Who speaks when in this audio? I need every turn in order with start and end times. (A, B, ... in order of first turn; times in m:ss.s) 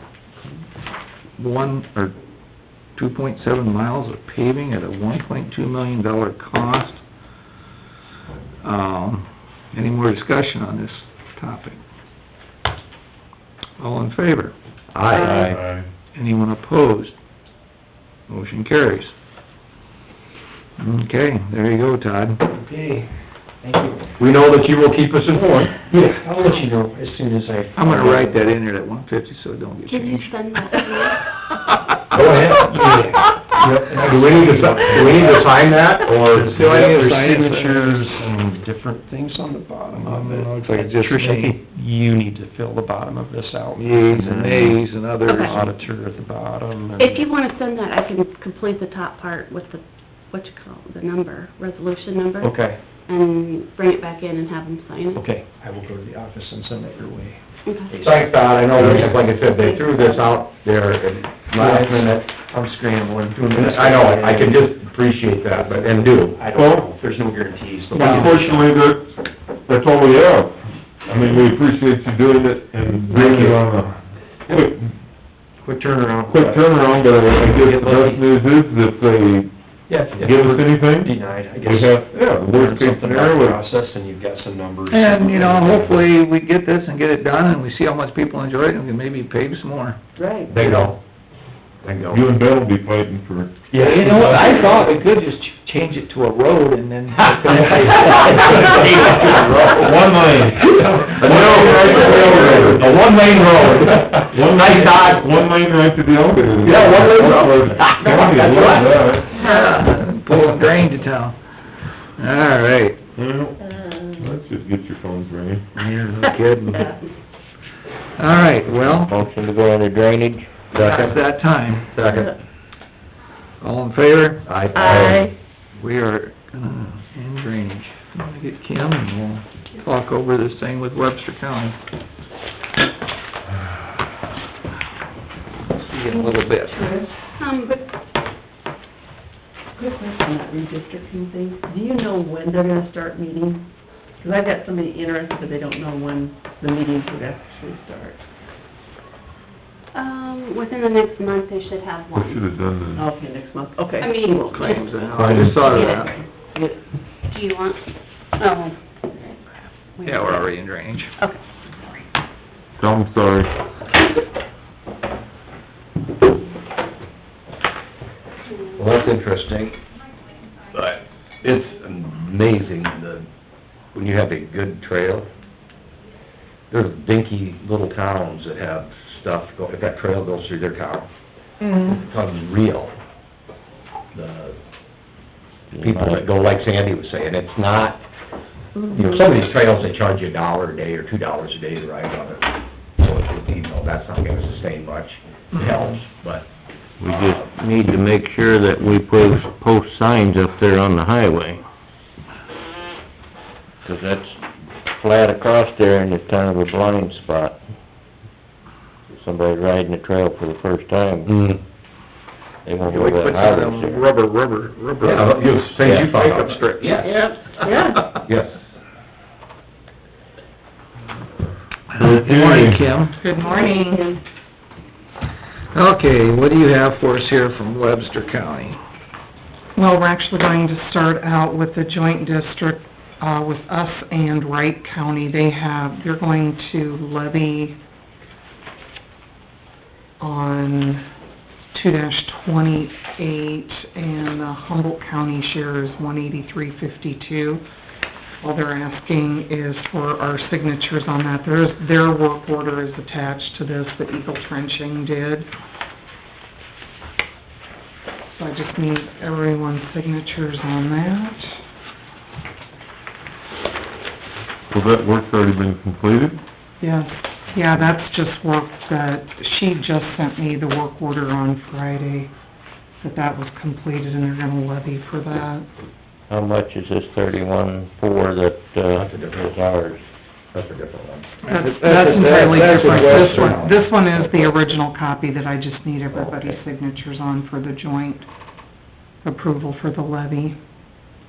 0:01.4-0:02.2 A
0:03.0-0:07.0 A
0:08.6-0:11.8 A
0:13.8-0:14.5 A
0:14.9-0:15.6 B
0:15.4-0:15.9 C
0:16.2-0:17.2 A
0:18.3-0:19.1 A
0:20.8-0:22.5 A
0:22.5-0:23.1 D
0:23.6-0:24.2 D
0:24.2-0:25.8 B
0:25.8-0:28.5 D
0:27.8-0:30.3 A
0:29.9-0:31.2 E
0:32.1-0:33.0 B
0:32.2-0:47.3 D
0:34.0-0:36.8 B
0:36.4-0:38.1 A
0:39.9-0:41.6 A
0:43.8-0:45.6 A
0:45.2-0:45.6 E
0:47.0-0:55.2 E
0:52.4-0:52.8 D
0:55.1-0:59.1 D
0:57.7-0:57.9 E
0:58.0-1:02.3 B
0:58.7-0:59.1 C
0:59.4-1:00.4 E
1:01.5-1:04.7 D
1:03.5-1:06.5 B
1:05.6-1:08.7 D
1:06.5-1:06.9 C
1:07.9-1:09.1 C
1:09.7-1:14.9 C
1:13.1-1:13.8 D
1:15.6-1:18.2 D
1:16.3-1:19.5 C
1:19.9-1:26.1 D
1:20.1-1:23.6 C
1:24.9-1:30.0 A
1:30.2-1:30.6 F
1:30.5-1:31.0 B
1:31.8-1:32.2 B
1:32.1-1:33.6 C
1:33.7-1:35.0 D
1:33.8-1:39.1 A
1:37.5-1:39.7 D
1:37.5-1:39.9 B
1:38.5-1:49.3 C
1:40.6-1:42.7 D
1:40.7-1:42.8 A
1:41.2-1:45.3 B
1:46.6-1:49.1 B
1:49.3-1:51.4 A
1:52.2-1:53.0 A
1:53.2-1:55.7 C
1:55.8-1:57.0 A
1:58.2-1:59.1 A
1:58.9-2:00.5 G
2:00.7-2:01.2 B
2:00.8-2:02.0 A
2:01.9-2:02.3 B
2:03.6-2:04.5 A
2:04.4-2:05.2 B
2:04.8-2:05.3 E
2:04.8-2:05.2 F
2:05.8-2:11.8 A
2:15.7-2:17.0 A
2:16.1-2:17.1 F
2:17.4-2:17.8 E
2:19.8-2:23.7 F
2:24.2-2:28.2 F
2:29.9-2:32.4 E
2:32.1-2:33.1 C
2:33.0-2:36.0 F
2:34.0-2:35.0 E
2:34.5-2:36.1 A
2:35.2-2:35.7 C
2:35.6-2:36.3 E
2:37.3-2:38.8 E
2:40.0-2:41.4 E
2:40.0-2:41.1 A
2:42.8-2:43.5 C
2:48.8-2:49.8 B
2:50.7-2:53.3 B
2:53.9-2:55.3 B
2:56.7-3:01.1 B
3:01.7-3:03.0 B
3:04.1-3:04.6 B
3:05.7-3:06.3 G
3:05.8-3:08.0 B
3:08.9-3:16.5 B
3:17.0-3:17.5 B
3:17.0-3:21.6 G
3:23.8-3:27.6 G
3:29.1-3:31.3 G
3:31.3-3:31.6 B
3:32.6-3:34.1 G
3:32.9-3:37.8 A
3:35.0-3:37.2 B
3:37.7-3:37.9 F
3:38.1-3:38.6 B
3:41.9-3:43.2 A
3:42.0-3:42.9 C
3:43.2-3:44.1 H
3:43.5-3:44.2 E
3:45.7-3:48.8 A
3:49.8-3:57.8 H
4:00.2-4:01.0 H
4:01.7-4:07.6 H
4:08.4-4:15.5 H
4:18.3-4:21.6 H
4:24.7-4:26.4 C
4:26.8-4:32.3 H
4:33.0-4:35.7 H
4:36.3-4:40.0 G
4:38.9-4:39.5 B
4:40.5-4:41.3 B
4:41.4-4:43.7 A
4:41.5-4:48.3 H
4:42.2-4:43.9 B
4:44.1-4:44.5 G
4:46.2-4:46.5 B
4:49.2-4:50.6 H